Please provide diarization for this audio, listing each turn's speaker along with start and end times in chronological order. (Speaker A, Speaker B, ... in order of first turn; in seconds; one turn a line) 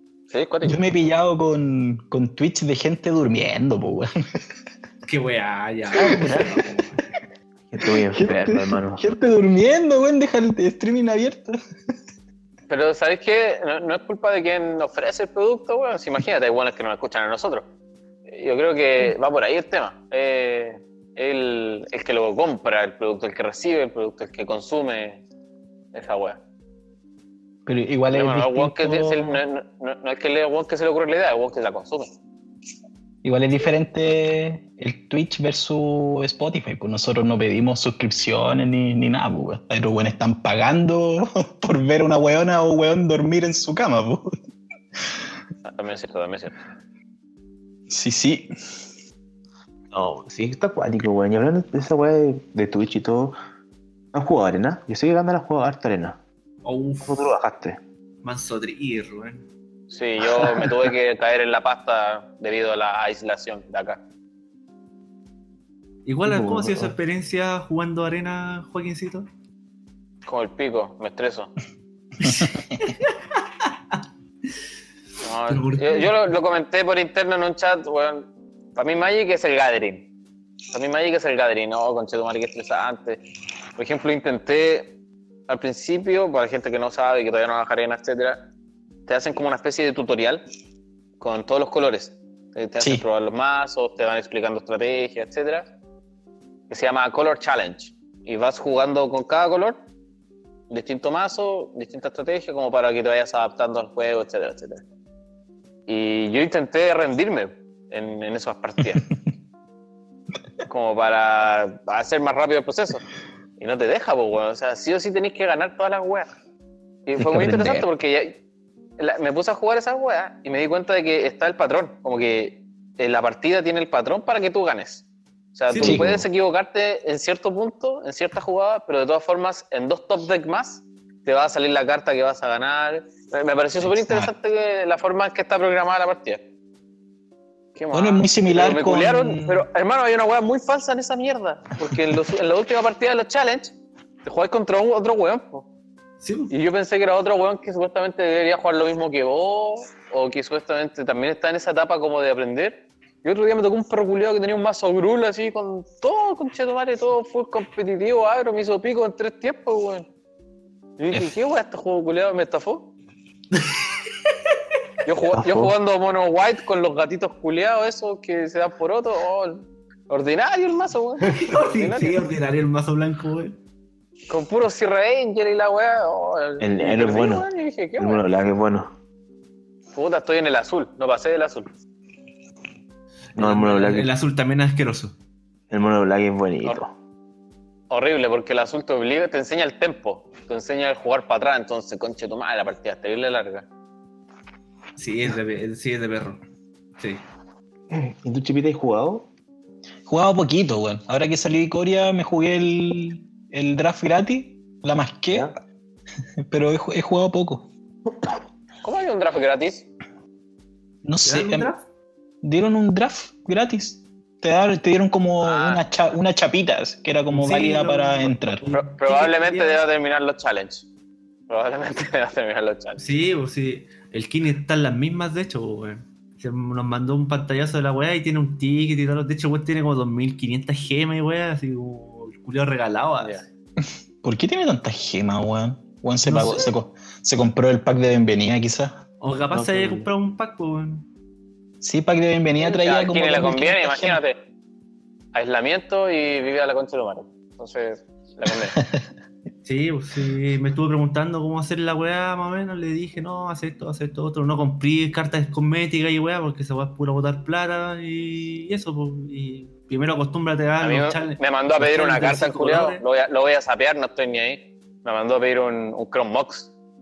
Speaker A: 0.3-0.8
Speaker B: 0.7-4.1
Speaker C: 5.0-7.0
Speaker B: 6.0-6.6
Speaker D: 7.7-9.0
Speaker B: 7.8-11.6
Speaker A: 12.7-17.6
Speaker A: 18.3-25.2
Speaker A: 25.9-26.4
Speaker B: 27.7-29.4
Speaker A: 28.1-32.1
Speaker B: 33.2-44.3
Speaker A: 45.7-46.5
Speaker B: 47.9-48.9
Speaker D: 49.9-53.4
Speaker D: 54.1-56.2
Speaker C: 56.6-57.3
Speaker D: 57.0-57.8
Speaker C: 58.2-59.4
Speaker A: 59.9-64.0
Speaker C: 66.1-69.3
Speaker D: 66.2-67.0
Speaker A: 70.3-71.5
Speaker C: 72.2-74.0
Speaker A: 75.2-80.0
Speaker C: 75.5-76.2
Speaker A: 80.7-83.2
Speaker A: 83.8-84.9
Speaker A: 85.5-88.4
Speaker A: 89.1-90.4
Speaker A: 91.2-95.7
Speaker B: 92.8-93.0
Speaker A: 96.7-99.8
Speaker A: 100.7-104.8
Speaker A: 105.9-109.0
Speaker A: 110.7-113.0
Speaker A: 113.6-116.3
Speaker A: 117.1-118.4
Speaker B: 117.2-117.9
Speaker A: 119.0-136.4
Speaker C: 125.7-126.0
Speaker D: 125.8-126.2
Speaker B: 125.8-126.1
Speaker B: 133.8-134.3
Speaker A: 137.8-143.7
Speaker B: 137.9-139.7
Speaker A: 144.2-145.7
Speaker C: 146.2-146.5
Speaker A: 146.5-160.1
Speaker A: 161.0-162.9
Speaker C: 163.5-163.8
Speaker A: 165.1-172.2
Speaker D: 165.3-165.8
Speaker C: 171.3-173.6
Speaker A: 174.3-178.2
Speaker D: 176.6-177.5
Speaker D: 178.0-178.9
Speaker A: 179.9-181.7
Speaker C: 183.3-185.1
Speaker D: 183.4-184.1
Speaker D: 185.7-186.9
Speaker A: 187.9-193.7
Speaker C: 195.0-196.4
Speaker C: 197.0-197.2
Speaker D: 197.9-199.2
Speaker B: 200.1-205.5
Speaker B: 206.5-207.7
Speaker A: 208.8-209.8
Speaker B: 211.0-211.7
Speaker C: 211.2-211.8
Speaker B: 212.4-218.6
Speaker A: 215.4-215.8
Speaker C: 217.3-219.8
Speaker A: 218.7-220.9
Speaker A: 221.5-223.0
Speaker C: 223.0-233.4
Speaker B: 233.8-239.0
Speaker C: 236.2-236.7
Speaker C: 239.2-241.1
Speaker D: 239.5-240.1
Speaker B: 241.8-244.2
Speaker A: 242.6-244.4
Speaker A: 245.3-248.8
Speaker B: 248.8-249.1
Speaker C: 249.7-263.0
Speaker A: 260.8-266.7